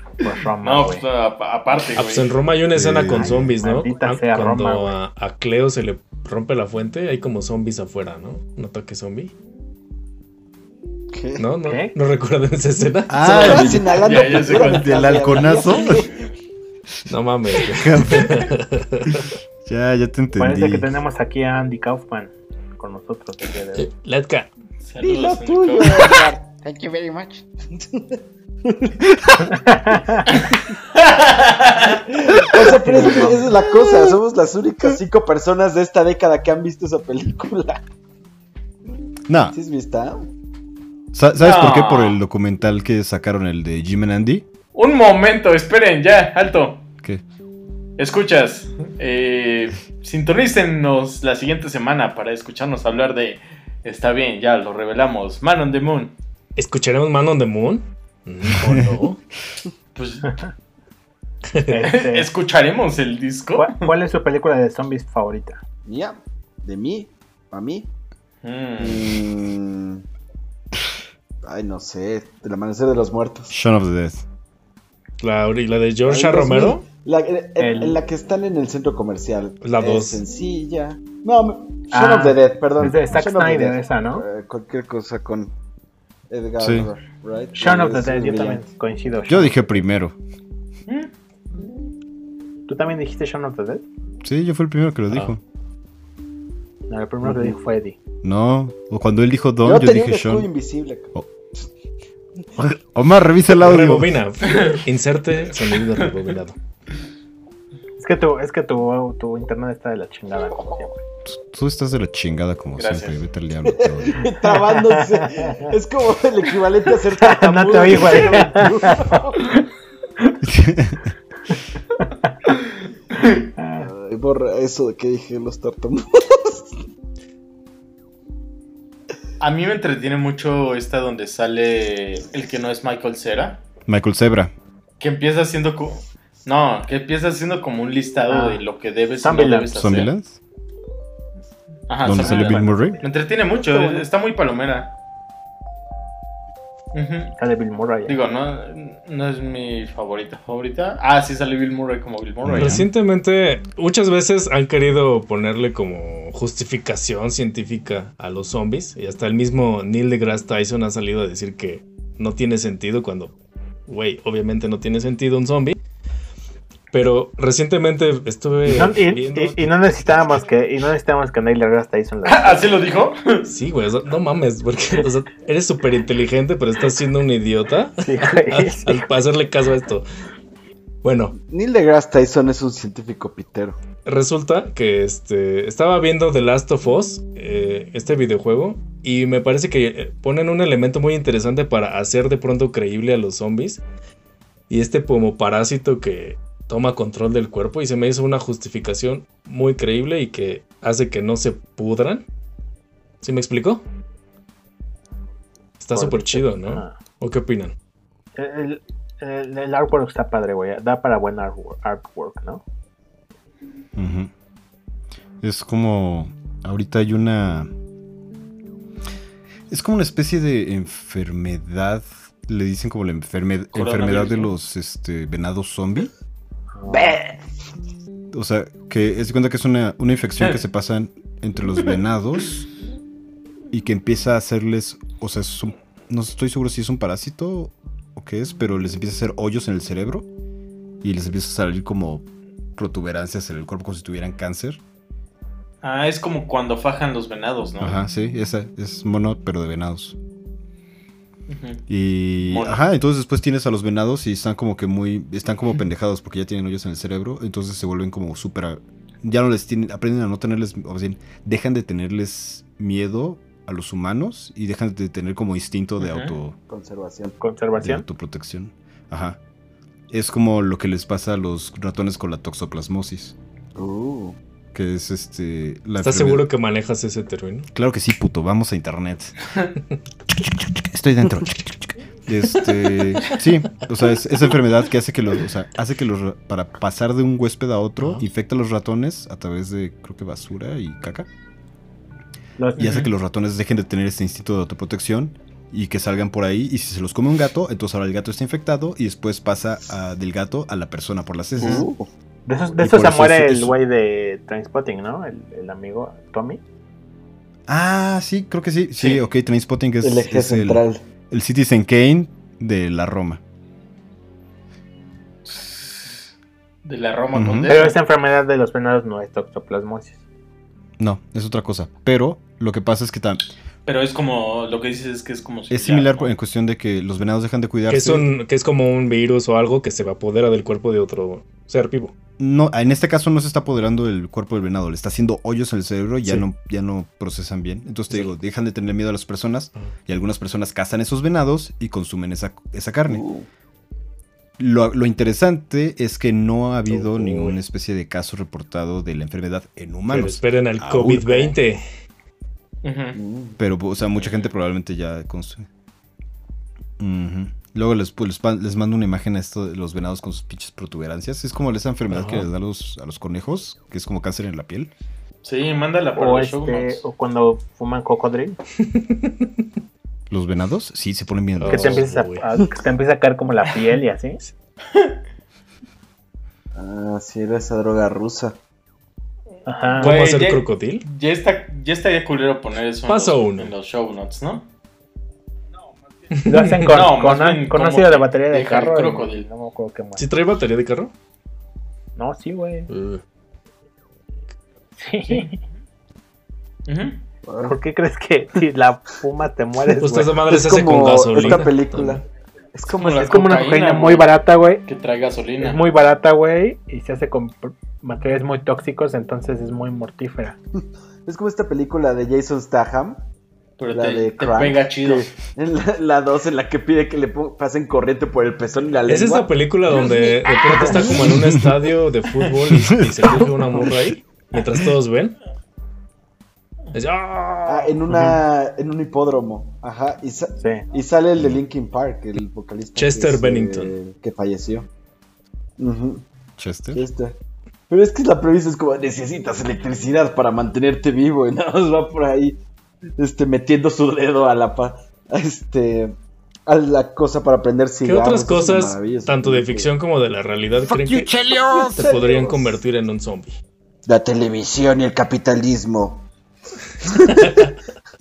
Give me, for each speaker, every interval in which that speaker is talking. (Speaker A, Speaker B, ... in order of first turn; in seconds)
Speaker A: 0.2-1.0, 3.1-5.0, 11.6-11.9, 20.4-23.9, 29.5-30.3, 32.9-33.4, 61.7-62.3, 63.6-65.6, 77.6-78.0, 81.9-84.3, 87.5-89.7, 92.7-93.8, 96.9-98.0, 108.0-111.0, 114.4-115.7, 117.1-119.6, 123.6-123.9, 138.3-138.6, 139.2-139.7, 142.2-143.0, 147.4-148.2, 168.7-172.7, 178.0-179.1, 205.9-206.9, 208.4-212.6, 226.8-227.2, 267.4-268.1, 292.6-293.0, 302.5-306.6, 317.7-320.2, 366.2-368.6, 371.7-374.4, 379.7-380.1, 386.5-390.2, 392.2-392.9, 395.0-395.6, 397.6-400.4, 403.0-404.9, 405.6-410.6
Speaker B: 0.6-2.3, 14.0-15.5, 24.8-26.2, 30.3-32.0, 41.4-42.2, 44.8-46.9, 48.0-56.2, 60.0-60.3, 61.8-63.9, 68.4-69.2, 90.9-91.1, 104.5-104.8, 112.8-113.2, 129.4-133.6, 135.0-140.1, 141.9-144.9, 146.9-147.3, 148.1-152.9, 172.2-173.5, 223.7-224.5, 245.8-248.0, 251.5-251.8, 252.4-252.8, 266.0-266.4, 309.0-309.3, 315.5-315.8, 316.9-318.0, 323.9-326.3, 352.8-353.2, 354.2-354.4, 365.4-367.0, 380.0-384.7, 386.9-389.5, 396.9-397.2, 402.9-404.3, 404.9-405.8, 413.8-415.3
Speaker C: 2.0-9.3, 11.4-13.9, 17.1-19.3, 23.8-24.5, 56.6-59.2, 61.5-61.8, 75.2-76.8, 79.6-80.2, 103.6-106.6, 152.6-163.3, 163.9-165.8, 166.9-169.8, 173.5-180.1, 181.0-181.3, 184.1-193.8, 194.7-202.2, 203.2-203.8, 205.8-207.7, 276.0-277.7, 288.0-288.2, 327.9-332.1, 346.9-347.6, 350.1-351.8, 362.1-362.5, 368.8-369.5, 371.6-372.4, 379.9-381.1, 383.1-383.7, 386.3-386.9, 390.2-391.1, 392.9-393.2, 400.0-402.2, 419.1-425.4, 426.9-427.9, 433.0-433.9, 448.0-453.6
Speaker D: 2.7-3.5, 13.1-16.1, 17.6-18.5, 19.6-20.9, 39.3-39.6, 41.1-44.5, 58.5-58.9, 73.5-74.2, 86.6-86.9, 89.3-90.2, 94.2-95.4, 98.2-100.5, 102.6-104.2, 111.2-114.2, 120.4-121.1, 133.9-134.5, 139.7-140.4, 142.0-143.0, 152.4-152.9, 214.0-214.3, 215.4-217.7, 219.7-226.1, 228.3-232.7, 233.7-240.3, 241.0-244.8, 247.8-250.2, 251.9-266.6, 267.8-269.4, 270.1-273.4, 274.7-276.5, 277.7-279.4, 280.5-291.3, 292.8-301.9, 302.8-303.8, 307.7-313.4, 317.3-317.7, 321.0-323.4, 325.7-328.3, 332.4-343.2, 344.6-351.6, 353.6-355.7, 357.0-364.9, 370.3-372.1, 421.2-421.8, 422.7-423.3, 436.6-437.0, 450.9-451.9
Speaker E: 11.1-11.5, 13.2-16.2, 25.0-29.0, 32.1-37.8, 39.5-40.3, 65.8-67.9, 68.8-70.0, 71.4-73.5, 76.1-85.5, 86.3-88.7, 97.2-97.6, 99.6-101.7, 113.7-119.6, 123.8-126.7, 143.6-144.1, 181.3-183.8, 226.9-227.4, 266.7-267.4, 273.8-274.4, 301.6-302.1, 310.0-311.0, 343.1-343.5, 353.1-353.6, 376.8-378.6, 397.5-397.8, 400.5-402.2, 402.7-403.3, 410.8-413.2, 413.9-420.2, 420.7-421.4, 427.6-434.9, 435.8-436.2, 436.9-437.4, 437.9-442.6, 443.2-449.9, 451.5-452.8, 454.1-456.3, 457.0-457.7